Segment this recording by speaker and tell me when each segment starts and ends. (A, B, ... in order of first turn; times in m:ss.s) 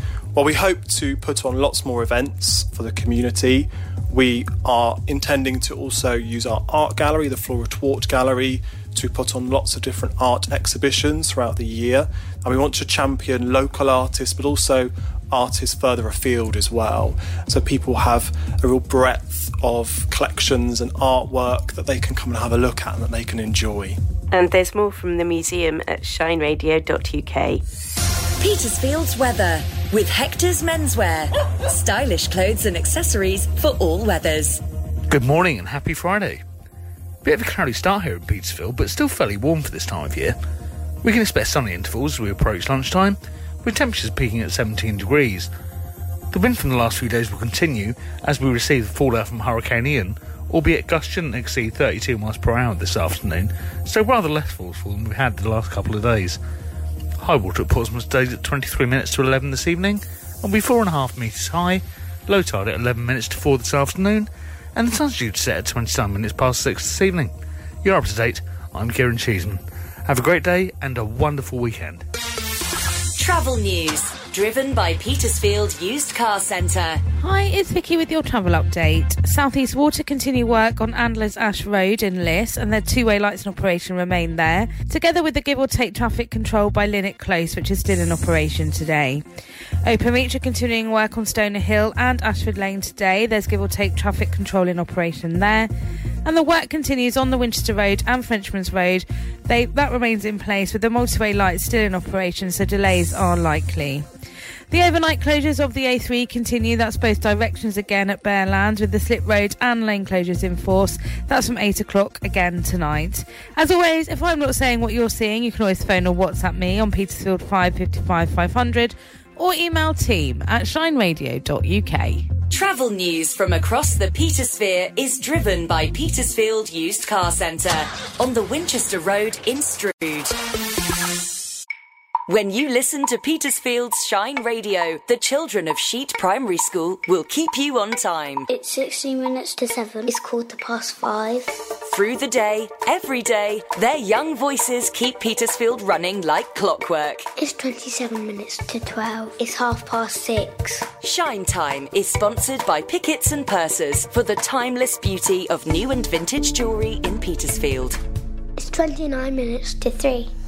0:00.3-0:24.0 A
0:24.3-0:27.6 B
0:28.4-0:34.6 C
0:35.1-0:36.4 D
0:37.2-0:40.4 D
0:41.0-0:45.5 D
0:46.3-0:56.4 D
0:57.2-1:07.3 D
1:07.8-1:12.0 D
1:13.2-1:17.0 C
1:17.2-1:29.2 E
1:29.8-1:35.7 E
1:36.2-1:44.0 E
1:44.7-2:02.2 E
2:02.5-2:10.4 C
2:12.3-2:18.5 C
2:18.5-2:21.5 F
2:21.8-2:27.3 C
2:27.4-2:30.9 F
2:31.0-2:38.0 C
2:38.6-2:40.3 F